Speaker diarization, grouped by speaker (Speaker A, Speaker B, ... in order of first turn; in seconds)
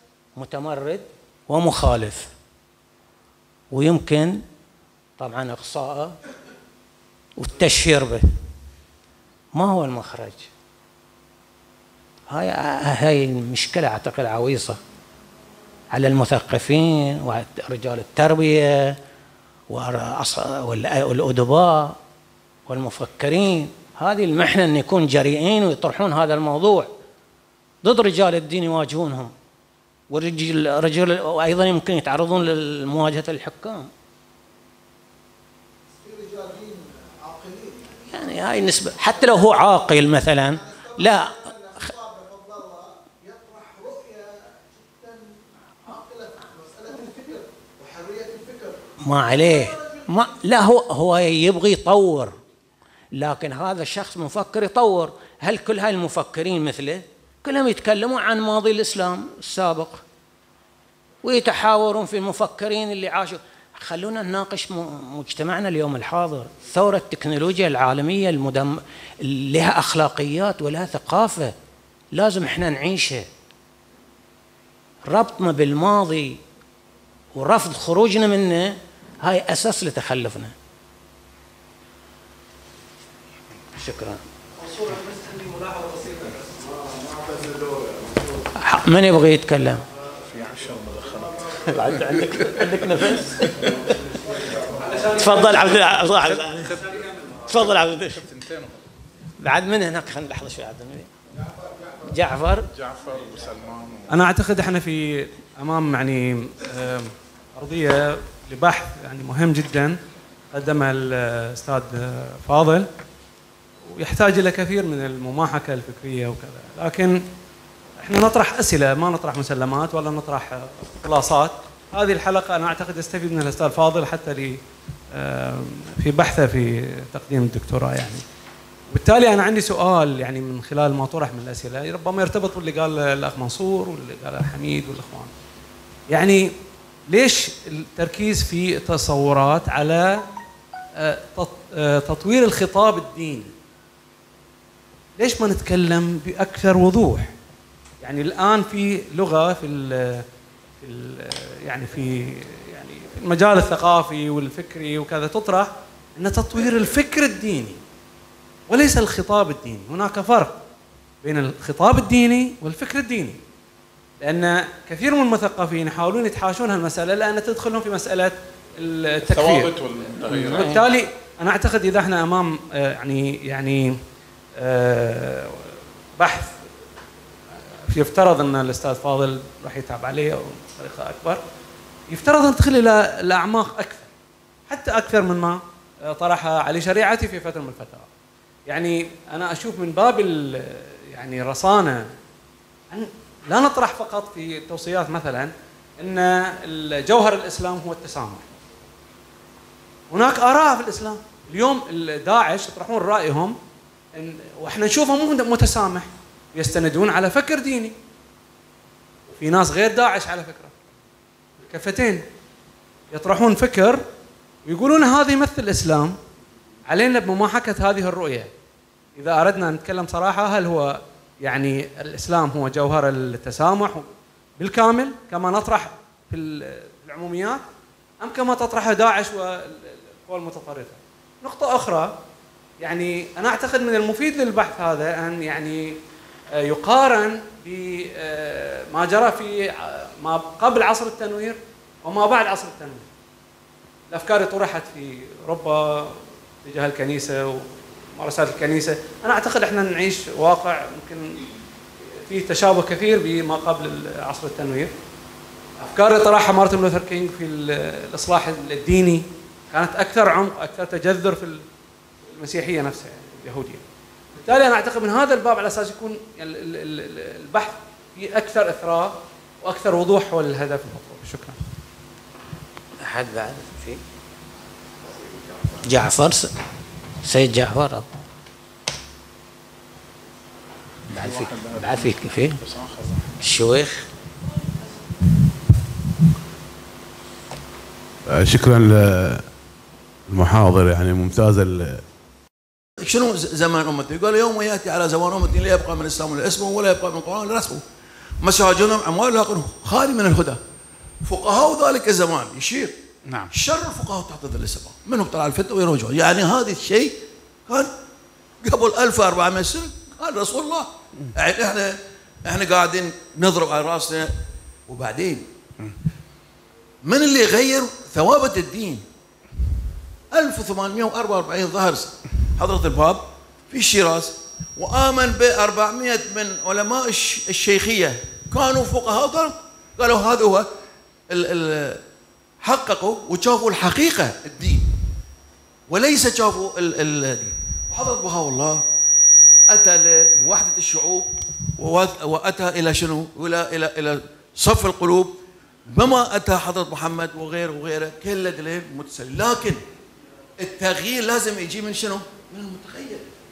Speaker A: 0.3-2.3, 3.7-4.4, 5.2-6.2, 7.4-8.2, 9.5-10.5, 12.3-14.8, 15.9-18.9, 19.7-22.0, 22.7-26.9, 27.8-29.3, 30.1-33.9, 38.0-41.9, 49.0-52.4, 53.1-60.0, 61.2-71.5, 72.1-73.3, 75.1-76.4, 77.3-80.5, 83.7-84.2, 88.6-89.8, 91.7-93.5, 95.1-96.8, 97.5-98.3, 99.4-101.1, 102.0-102.7, 170.3-170.8, 273.0-274.0, 275.8-276.5, 277.2-278.1, 281.1-282.6, 283.4-284.1
Speaker B: 84.7-86.6, 94.8-95.5, 104.1-110.0, 110.5-112.9, 113.9-117.2, 118.0-124.6, 125.1-128.2, 128.9-135.3, 136.1-136.5, 137.1-140.2, 141.0-143.5, 145.2-147.3, 148.0-150.2, 150.8-157.8, 158.7-160.6, 161.2-163.4, 164.2-174.0, 174.6-176.6, 177.9-181.4, 182.1-184.1, 184.7-188.1, 188.7-192.1, 192.9-198.5, 200.1-203.6, 204.1-207.9, 209.3-210.7, 211.6-212.2, 213.1-214.0, 214.6-216.2, 216.9-218.5, 219.2-224.1, 224.6-227.6, 228.2-232.1, 232.8-236.0, 236.6-243.1, 244.1-251.4, 252.1-254.9, 255.8-261.6, 262.3-263.8, 264.3-271.6
Speaker C: 87.1-88.0, 90.3-92.6, 93.5-93.7, 98.3-98.7, 102.7-104.1, 169.3-170.9, 281.1-282.0, 282.6-283.2
Speaker D: 288.4-289.3, 290.3-292.0
Speaker E: 293.0-297.8, 298.4-300.6, 301.2-302.9, 303.5-307.1, 308.6-314.3, 314.9-315.5, 317.0-319.0, 320.3-330.7, 331.3-332.0, 332.6-334.8, 335.9-338.8, 339.7-345.4, 345.9-349.8, 350.6-353.3